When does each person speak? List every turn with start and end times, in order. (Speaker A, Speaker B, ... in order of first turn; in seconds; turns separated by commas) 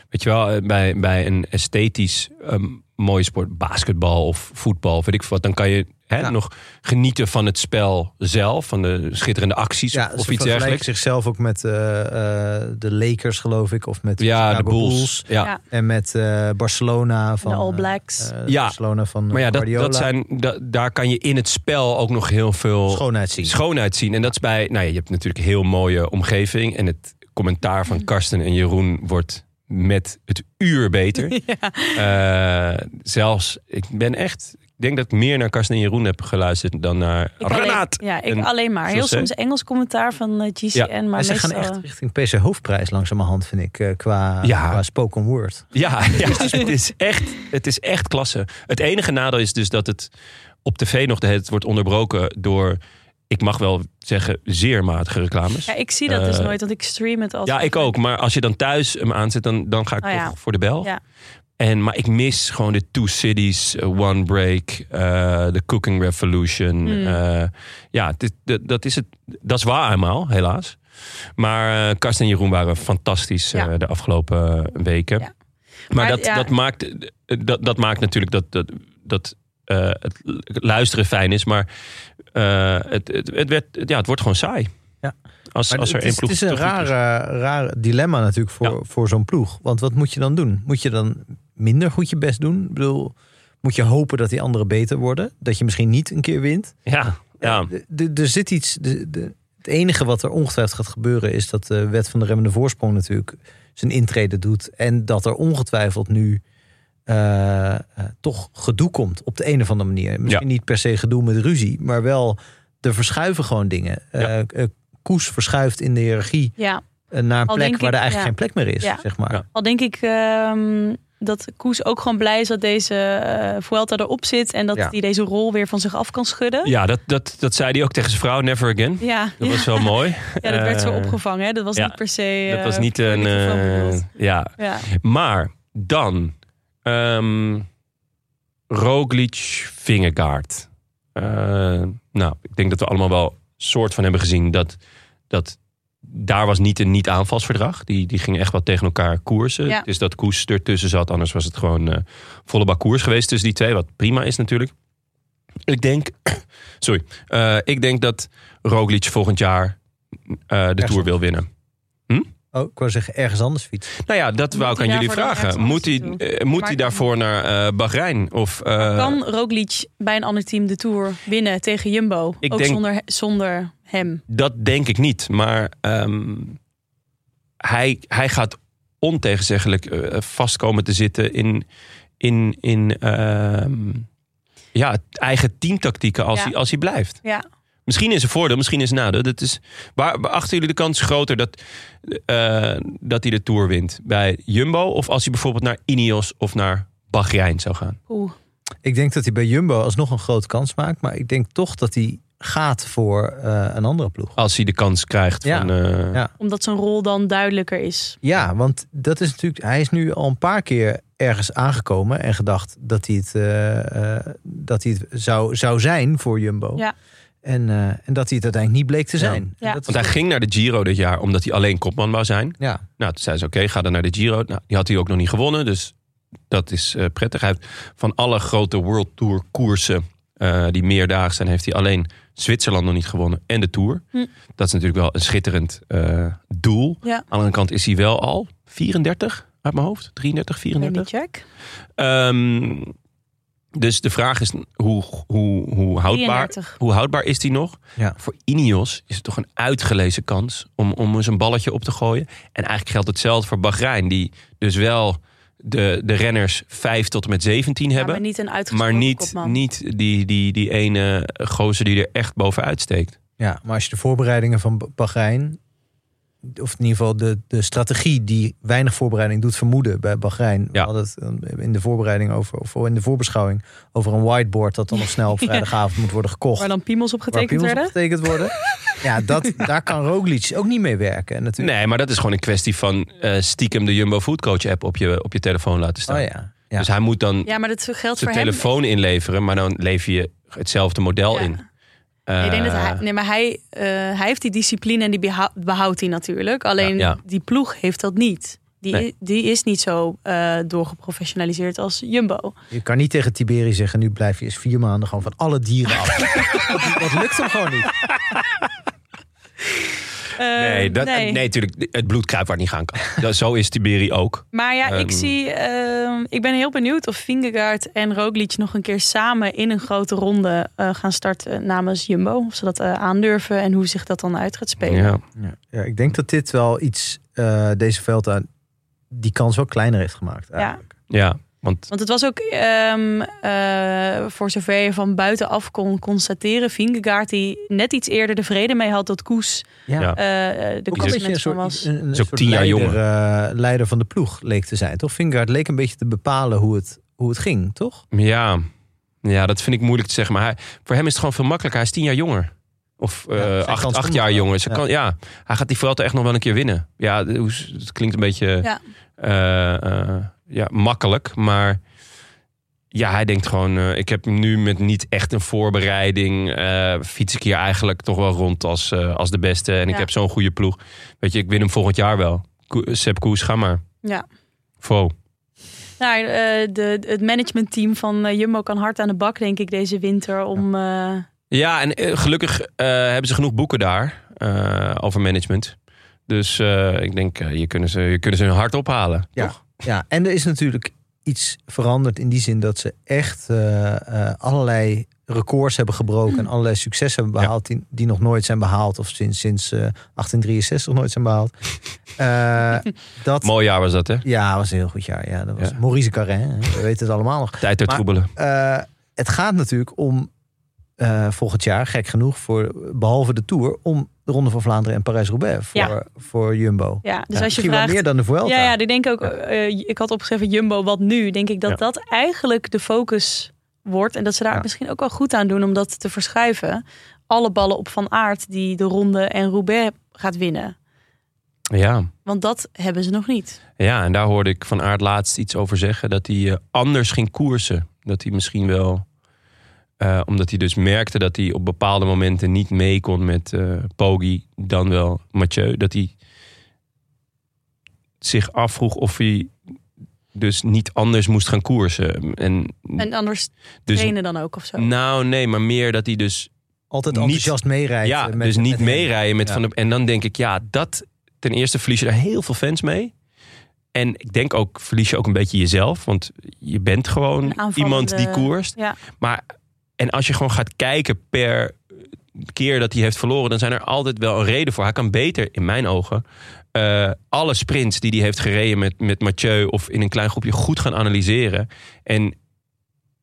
Speaker A: 0.1-10.8, Speaker B: 9.9-20.1, Speaker A: 14.2-15.5, Speaker C: 17.4-18.3, Speaker A: 18.5-18.8, Speaker A: 19.3-31.4, Speaker B: 22.9-23.5, Speaker C: 31.2-32.0, Speaker A: 31.9-39.3, Speaker C: 37.4-41.8, Speaker B: 41.1-45.7, Speaker A: 44.4-44.8, Speaker A: 45.7-50.1, Speaker C: 46.3-46.7, Speaker A: 50.6-52.8, Speaker A: 53.3-56.5, Speaker C: 55.7-57.9, Speaker A: 57.5-60.9, Speaker C: 60.0-61.0, Speaker A: 61.6-70.8, Speaker C: 66.8-67.2, Speaker A: 71.4-75.3, Speaker A: 75.9-81.7, Speaker C: 75.9-76.5, Speaker A: 82.3-84.7, Speaker A: 85.5-86.9, Speaker B: 85.7-96.7, Speaker A: 96.8-97.7, Speaker B: 97.4-106.4, Speaker B: 107.1-116.5, Speaker C: 116.6-116.8, Speaker B: 117.1-119.4, Speaker C: 117.5-126.7, Speaker A: 126.6-131.2, Speaker C: 129.0-134.1, Speaker A: 132.5-136.3, Speaker C: 134.6-134.9, Speaker A: 136.8-137.7, Speaker A: 138.7-144.8, Speaker A: 145.3-154.7, Speaker A: 155.7-159.8, Speaker A: 160.5-161.5, Speaker B: 160.8-161.1, Speaker B: 162.5-163.9, Speaker A: 164.0-169.2, Speaker C: 164.5-167.0, Speaker C: 168.8-174.2, Speaker A: 172.4-172.8, Speaker A: 174.3-176.6, Speaker A: 177.6-181.6, Speaker A: 182.2-184.1, Speaker A: 184.7-187.2, Speaker A: 187.8-198.0, Speaker C: 198.1-198.3, Speaker B: 198.8-204.3, Speaker A: 204.4-206.2, Speaker B: 205.4-206.3, Speaker C: 206.4-208.2, Speaker B: 208.2-216.8, Speaker B: 217.4-220.1, Speaker A: 219.2-225.9, Speaker A: 226.5-234.0, Speaker A: 234.6-241.1, Speaker C: 240.8-241.4, Speaker A: 242.0-242.9, Speaker A: 243.7-263.1, Speaker C: 246.1-246.8, Speaker C: 257.9-259.6, Speaker B: 263.4-265.6, Speaker B: 266.4-276.7, Speaker C: 276.6-277.9, Speaker B: 277.3-281.7, Speaker A: 281.6-287.5, Speaker B: 286.1-286.9, Speaker C: 287.4-288.7, Speaker A: 288.2-291.6, Speaker C: 291.3-291.6, Speaker A: 292.3-293.0, Speaker C: 292.4-302.5, Speaker A: 296.8-297.2, Speaker B: 302.7-307.9, Speaker C: 310.4-311.4, Speaker A: 310.6-315.3, Speaker C: 314.5-325.2, Speaker A: 324.8-325.2, Speaker B: 325.4-328.5, Speaker B: 329.1-330.8, Speaker A: 331.1-331.9, Speaker C: 331.9-341.9, Speaker B: 339.9-340.2, Speaker B: 340.9-348.0, Speaker A: 342.1-343.0, Speaker A: 348.1-348.7, Speaker A: 349.2-358.7, Speaker B: 353.4-354.8, Speaker A: 359.2-361.8, Speaker A: 362.9-373.8, Speaker A: 374.8-375.1, Speaker C: 376.0-381.2, Speaker A: 381.5-385.7, Speaker A: 386.3-389.6, Speaker B: 389.4-401.5, Speaker B: 402.2-403.5, Speaker A: 403.4-404.2, Speaker B: 404.2-410.3, Speaker A: 407.6-408.3, Speaker B: 411.0-418.7, Speaker C: 417.0-430.8, Speaker A: 431.7-432.1, Speaker C: 432.2-433.6, Speaker A: 433.8-439.0, Speaker A: 440.0-446.1, Speaker A: 448.2-449.5, Speaker A: 450.3-453.1, Speaker C: 453.0-454.9, Speaker A: 453.9-454.1, Speaker A: 454.7-456.5, Speaker B: 456.9-459.6, Speaker A: 457.1-457.5, Speaker A: 458.0-463.1, Speaker A: 463.9-469.4, Speaker C: 467.4-469.0, Speaker A: 470.0-471.8, Speaker A: 472.4-482.3